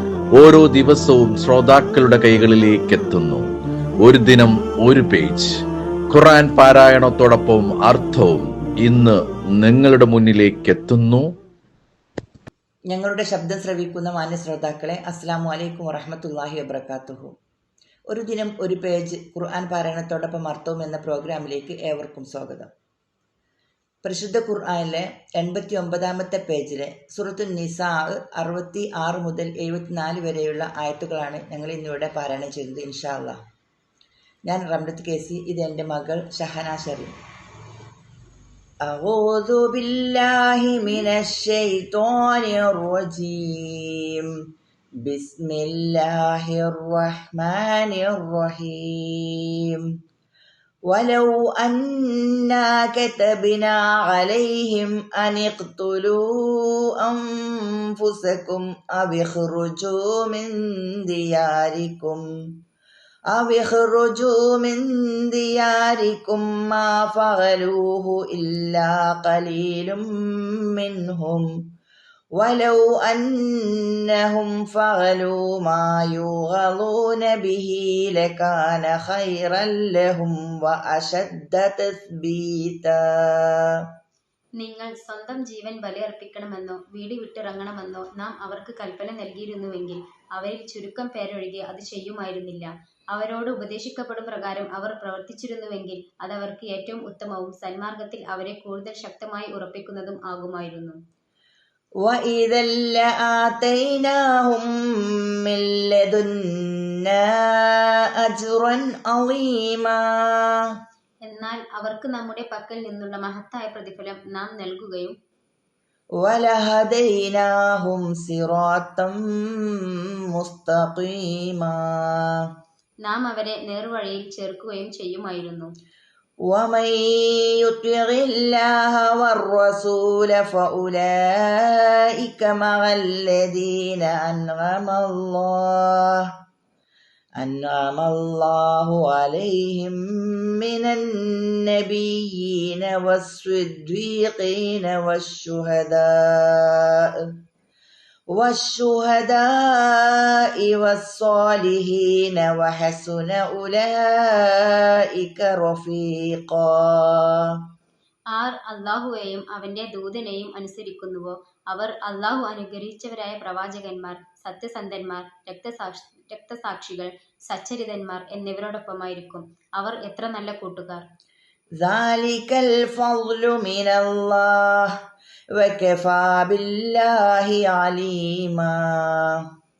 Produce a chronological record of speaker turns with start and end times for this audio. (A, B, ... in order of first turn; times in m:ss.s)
0:00.4-0:03.4 A
0:04.0-0:05.5 A
0:06.1-0:11.2 A
0:12.9-0:17.3 B
0:18.1-0:22.7 B
0:24.0-0:33.4 B
0:34.5-0:37.2 B
0:38.8-0:44.2 B
0:45.0-0:49.8 B
0:50.9-1:00.5 B
1:01.0-1:02.2 B
1:03.3-1:10.0 B
1:10.7-1:11.5 B
1:12.4-1:23.8 B
1:24.6-1:41.0 C
1:42.0-1:44.7 B
1:45.4-1:47.2 B
1:47.7-1:50.5 B
1:51.2-1:55.1 C
1:56.2-1:59.2 B
2:00.3-2:02.2 B
2:03.0-2:05.7 C
2:06.5-2:16.2 B
2:17.4-2:20.0 B
2:20.6-2:27.0 B
2:28.3-2:37.5 B
2:38.3-2:51.0 C
2:51.8-2:54.9 B
2:55.6-2:59.4 B